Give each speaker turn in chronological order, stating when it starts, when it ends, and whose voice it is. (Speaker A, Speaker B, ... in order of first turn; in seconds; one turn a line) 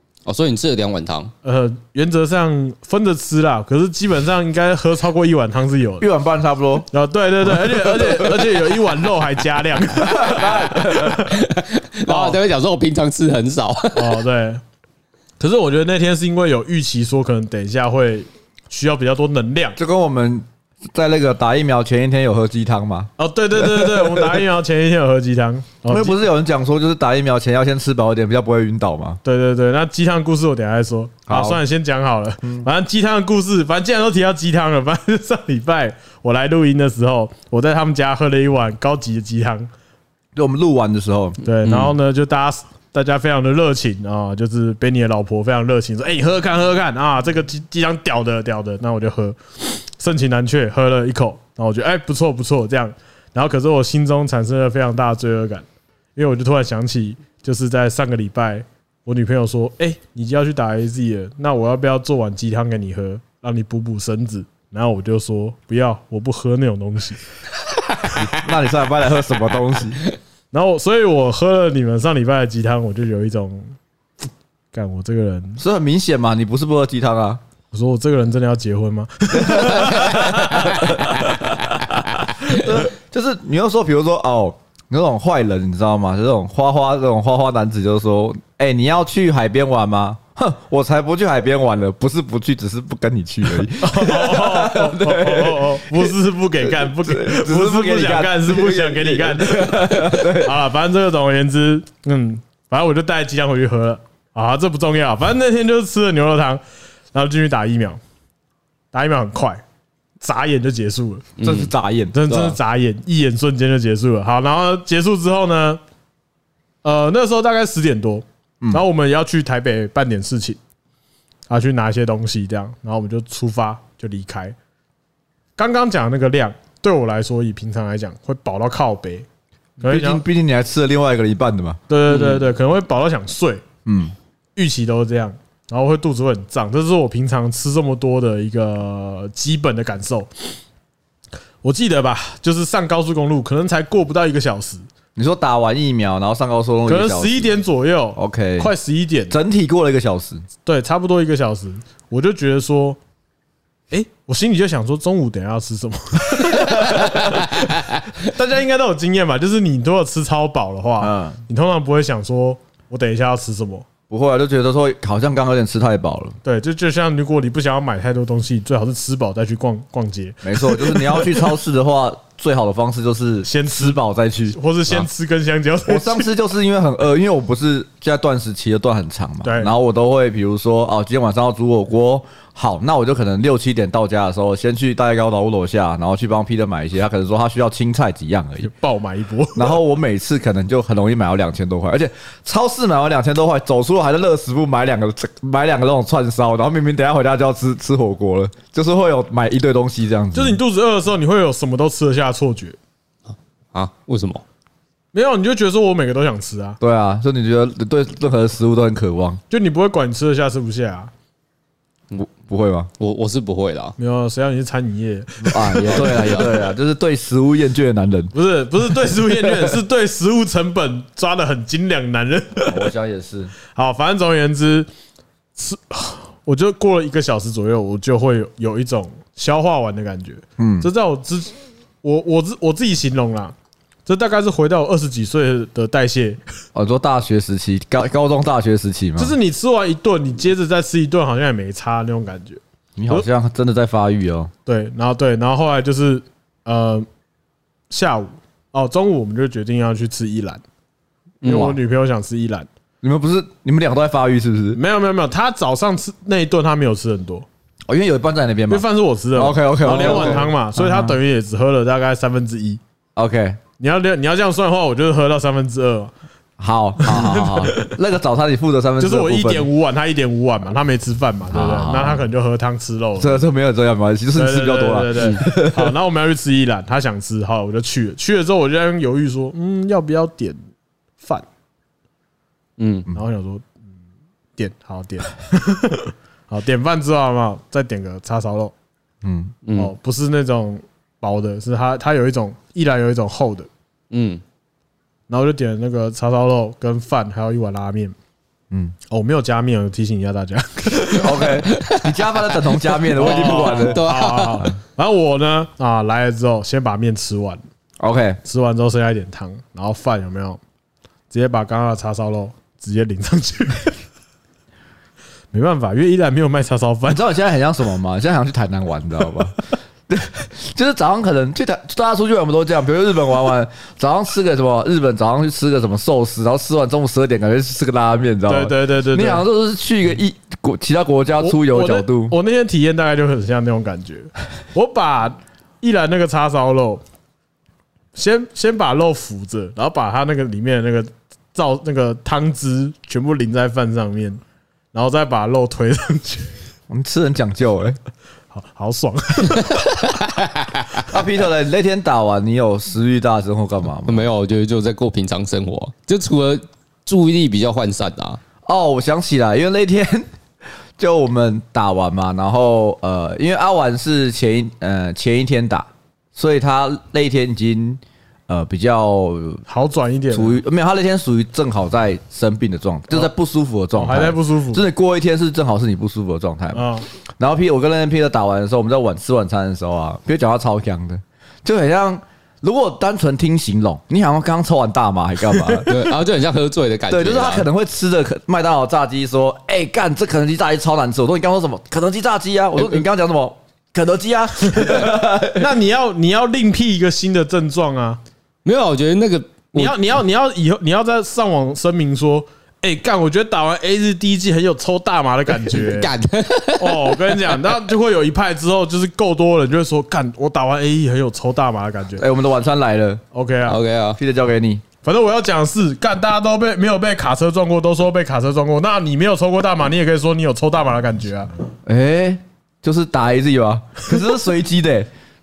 Speaker A: 0.2-1.3
Speaker B: 1.4-6.1
Speaker C: 6.0-6.9
Speaker B: 6.9-11.4
Speaker C: 7.4-8.7
Speaker C: 9.9-11.3
Speaker A: 11.3-14.2
Speaker B: 12.0-12.4
Speaker B: 13.9-14.6
Speaker B: 15.4-19.8
Speaker C: 19.8-24.4
Speaker B: 23.2-26.2
Speaker C: 25.9-29.2
Speaker B: 29.2-39.7
Speaker C: 31.3-31.6
Speaker C: 40.4-41.4
Speaker B: 41.4-55.6
Speaker B: 56.2-67.2
Speaker C: 68.2-70.0
Speaker B: 70.5-73.8
Speaker B: 74.7-75.6
Speaker C: 75.6-77.4
Speaker B: 77.7-81.5
Speaker C: 79.3-81.8
Speaker C: 82.4-100.6
Speaker B: 93.8-106.6
Speaker B: 107.1-108.0
Speaker B: 108.9-109.6
Speaker B: 110.2-111.3
Speaker A: 111.4-111.7
Speaker C: 111.4-112.2
Speaker B: 112.1-115.8
Speaker A: 112.3-112.6
Speaker B: 116.8-120.6
Speaker B: 121.5-124.6
Speaker B: 125.6-129.3
Speaker C: 129.8-131.8
Speaker B: 129.8-130.2
Speaker B: 131.9-133.6
Speaker A: 132.1-132.4
Speaker C: 133.8-134.1
Speaker B: 134.6-140.5
Speaker B: 141.6-144.8
Speaker C: 145.2-147.6
Speaker B: 146.8-149.3
Speaker C: 148.2-148.7
Speaker C: 149.3-150.4
Speaker B: 150.7-153.0
Speaker B: 153.9-163.9
Speaker C: 156.5-157.2
Speaker C: 161.0-161.4
Speaker C: 164.1-166.4
Speaker B: 166.4-171.4
Speaker C: 170.4-175.1
Speaker B: 173.4-174.0
Speaker B: 174.5-176.3
Speaker C: 175.8-188.7
Speaker B: 179.4-179.7
Speaker B: 188.6-189.8
Speaker C: 189.6-200.6
Speaker B: 200.3-202.8
Speaker A: 203.7-204.4
Speaker B: 205.1-206.8
Speaker C: 206.8-209.4
Speaker B: 209.5-211.1
Speaker C: 212.1-212.9
Speaker A: 213.0-213.9
Speaker B: 214.0-216.5
Speaker C: 215.4-218.3
Speaker A: 215.7-216.6
Speaker B: 218.3-222.9
Speaker C: 222.7-223.5
Speaker B: 223.8-224.9
Speaker B: 225.6-233.6
Speaker C: 230.6-230.9
Speaker B: 234.1-236.4
Speaker C: 236.8-239.3
Speaker B: 239.2-243.3
Speaker C: 243.0-244.5
Speaker B: 244.7-247.1
Speaker B: 247.9-250.6
Speaker C: 251.4-251.8
Speaker B: 251.4-252.7
Speaker C: 253.0-254.8
Speaker B: 254.7-257.5
Speaker C: 257.9-261.2
Speaker B: 258.7-262.8
Speaker C: 263.2-263.6
Speaker B: 263.8-266.1
Speaker C: 266.6-269.7
Speaker B: 267.0-267.9
Speaker B: 269.0-273.4
Speaker C: 271.5-272.2
Speaker C: 273.2-275.9
Speaker B: 274.3-280.6
Speaker A: 282.8-283.1
Speaker B: 283.1-283.7
Speaker B: 284.6-288.7
Speaker C: 289.2-289.6
Speaker A: 289.6-289.9
Speaker B: 289.8-293.7
Speaker A: 294.1-294.4
Speaker B: 295.3-298.1
Speaker B: 299.1-301.4
Speaker C: 301.0-304.0
Speaker A: 301.5-304.6
Speaker B: 303.2-307.6
Speaker C: 308.0-308.4
Speaker B: 308.4-310.6
Speaker B: 311.3-314.0
Speaker B: 315.5-317.3
Speaker C: 317.1-332.3
Speaker B: 328.5-329.4
Speaker B: 331.4-337.0
Speaker B: 338.1-344.4
Speaker B: 344.9-346.5
Speaker C: 346.9-348.0
Speaker B: 348.5-350.1
Speaker A: 350.1-350.6
Speaker C: 351.1-354.3
Speaker A: 354.1-358.4
Speaker C: 358.6-360.3
Speaker C: 361.0-369.6
Speaker B: 369.7-370.6
Speaker C: 370.3-376.8
Speaker B: 373.9-374.8
Speaker B: 376.7-377.1
Speaker C: 377.4-385.9
Speaker B: 385.6-385.9
Speaker A: 385.9-387.7
Speaker C: 387.1-395.7
Speaker B: 394.8-398.2
Speaker A: 398.6-399.9
Speaker B: 399.7-406.1
Speaker A: 405.7-407.6
Speaker B: 406.8-412.2
Speaker C: 412.2-413.2
Speaker B: 413.3-413.8
Speaker A: 413.7-414.2
Speaker C: 414.2-414.8
Speaker B: 415.0-421.5
Speaker C: 421.9-425.1